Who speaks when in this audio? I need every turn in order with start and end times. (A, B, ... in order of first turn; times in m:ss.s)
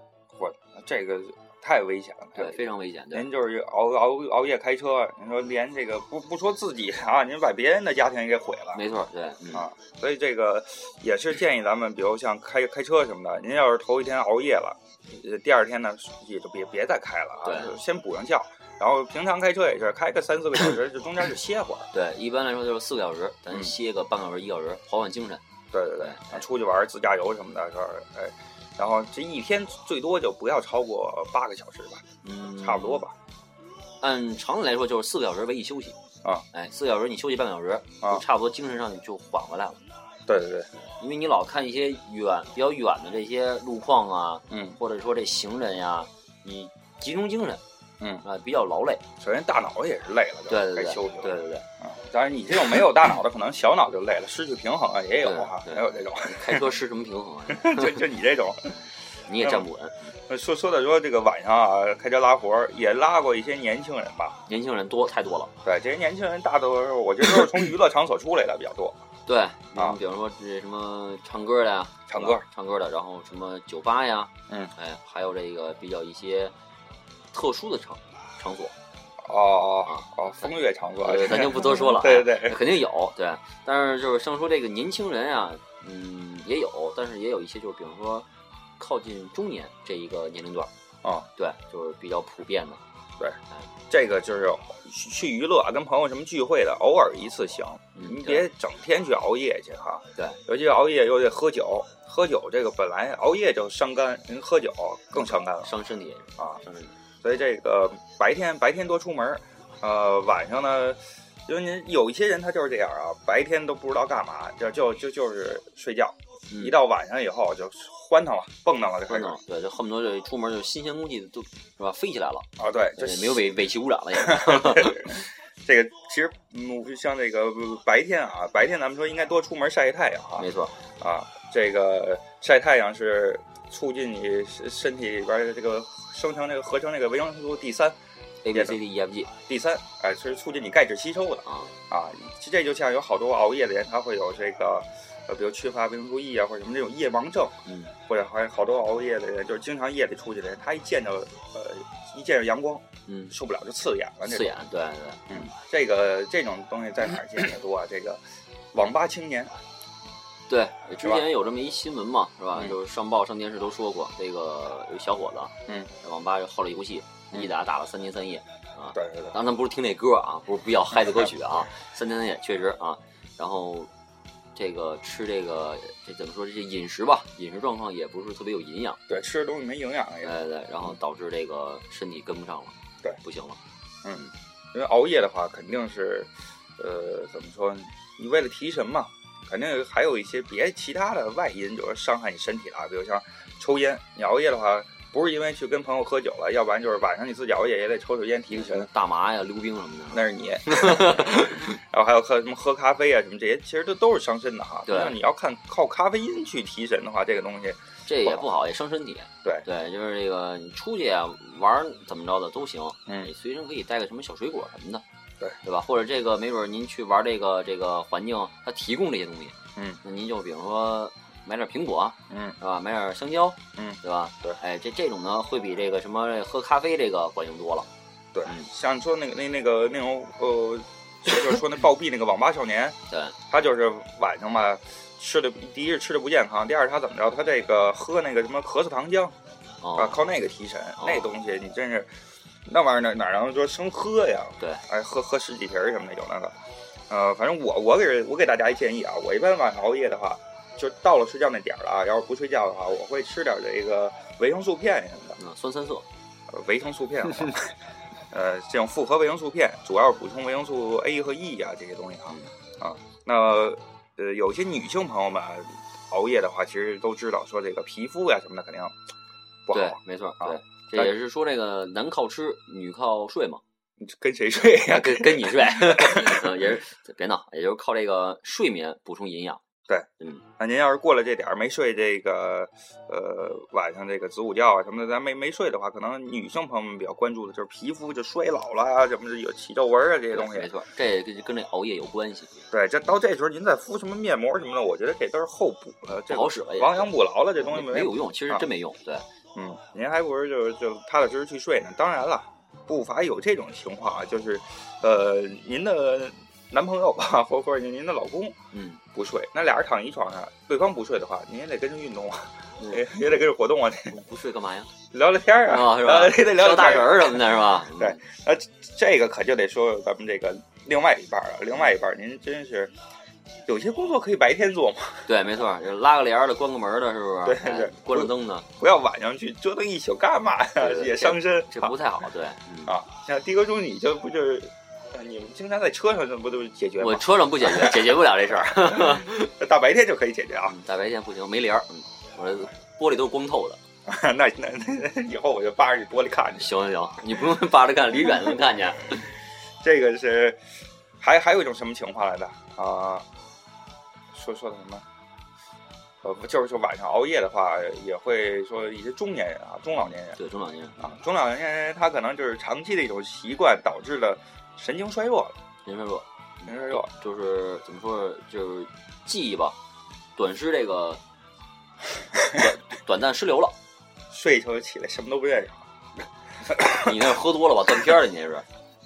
0:00.3-0:02.6 A
0:02.3-0:03.3 B
0:03.1-0:08.8 A
0:08.7-0:09.7 B
0:09.5-0:21.9 A
0:17.4-0:17.8 B
0:21.9-0:25.4 B
0:25.7-0:32.0 A
0:26.0-0:26.4 B
0:32.2-0:33.0 B
0:32.6-0:33.2 A
0:34.0-0:36.0 B
0:36.5-0:39.8 B
0:40.3-0:40.7 A
0:40.8-0:47.6 B
0:44.5-0:44.8 A
0:48.2-0:49.0 B
0:49.2-0:56.8 A
0:50.5-0:51.6 B
0:55.2-0:58.0 B
0:57.5-0:59.6 A
0:59.3-1:00.1 B
1:00.3-1:04.4 A
1:04.5-1:05.5 B
1:05.6-1:09.0 A
1:09.2-1:16.5 B
1:12.1-1:12.4 A
1:17.3-1:18.7 B
1:19.2-1:22.6 A
1:19.8-1:28.3 B
1:28.8-1:30.7 B
1:31.4-1:32.8 B
1:33.9-1:45.8 A
1:38.0-1:38.5 B
1:45.1-1:47.0 B
1:47.2-1:59.4 A
1:56.5-1:56.8 B
1:59.1-2:02.4 B
2:02.6-2:03.4 A
2:03.0-2:05.0 B
2:04.2-2:10.5 A
2:10.4-2:10.8 B
2:11.0-2:18.0 A
2:18.4-2:19.3 B
2:18.5-2:18.8 A
2:19.5-2:27.6 A
2:21.4-2:21.7 B
2:27.6-2:27.9 B
2:28.1-2:34.5 A
2:33.1-2:33.3 B
2:34.2-2:35.5 B
2:35.3-2:38.2 A
2:38.7-2:39.5 A
2:40.5-2:53.9 B
2:41.0-2:41.3 A
2:48.9-2:49.4 A
2:54.5-2:59.0 B
2:59.1-3:01.0 A
3:00.2-3:03.6 B
3:04.0-3:18.9 A
3:18.5-3:21.7 B
3:20.1-3:28.5 A
3:24.9-3:25.2 B
3:28.0-3:35.0 B
3:35.6-3:47.9 B
3:42.3-3:42.6 A
3:43.8-3:44.6 A
3:48.3-3:53.0 A
3:53.1-3:53.4 B
3:53.5-3:59.3 A
3:59.8-4:00.2 B
4:00.0-4:02.1 A
4:01.0-4:01.4 B
4:02.6-4:06.6 A
4:04.6-4:04.8 B
4:07.1-4:15.4 A
4:15.4-4:16.0 B
4:16.5-4:17.8 A
4:18.3-4:28.9 A
4:29.6-4:31.1 A
4:29.7-4:33.6 B
4:34.0-4:36.6 A
4:34.9-4:39.6 B
4:40.6-4:50.7 A
4:50.3-4:52.5 B
4:52.7-4:58.7 A
4:56.3-4:59.2 B
4:59.5-5:08.6 A
5:08.7-5:09.0 B
5:09.1-5:14.2 A
5:12.8-5:13.4 B
5:14.1-5:14.9 B
5:15.1-5:22.9 A
5:15.6-5:18.2 B
5:23.6-5:25.3 A
5:25.3-5:28.7 B
5:27.4-5:32.0 A
5:30.8-5:32.9 B
5:32.8-5:40.8 A
5:37.0-5:39.5 B
5:40.6-5:43.8 B
5:44.0-5:46.7 A
5:46.6-5:49.3 B
5:49.8-5:50.6 A
5:51.2-5:53.2 A
5:54.3-5:55.0 A
5:56.2-6:00.4 A
6:00.3-6:01.1 B
6:01.0-6:05.6 A
6:05.8-6:09.8 B
6:06.6-6:07.1 A
6:10.4-6:11.2 B
6:12.4-6:13.7 B
6:14.3-6:15.8 A
6:16.7-6:17.3 A
6:16.8-6:18.6 B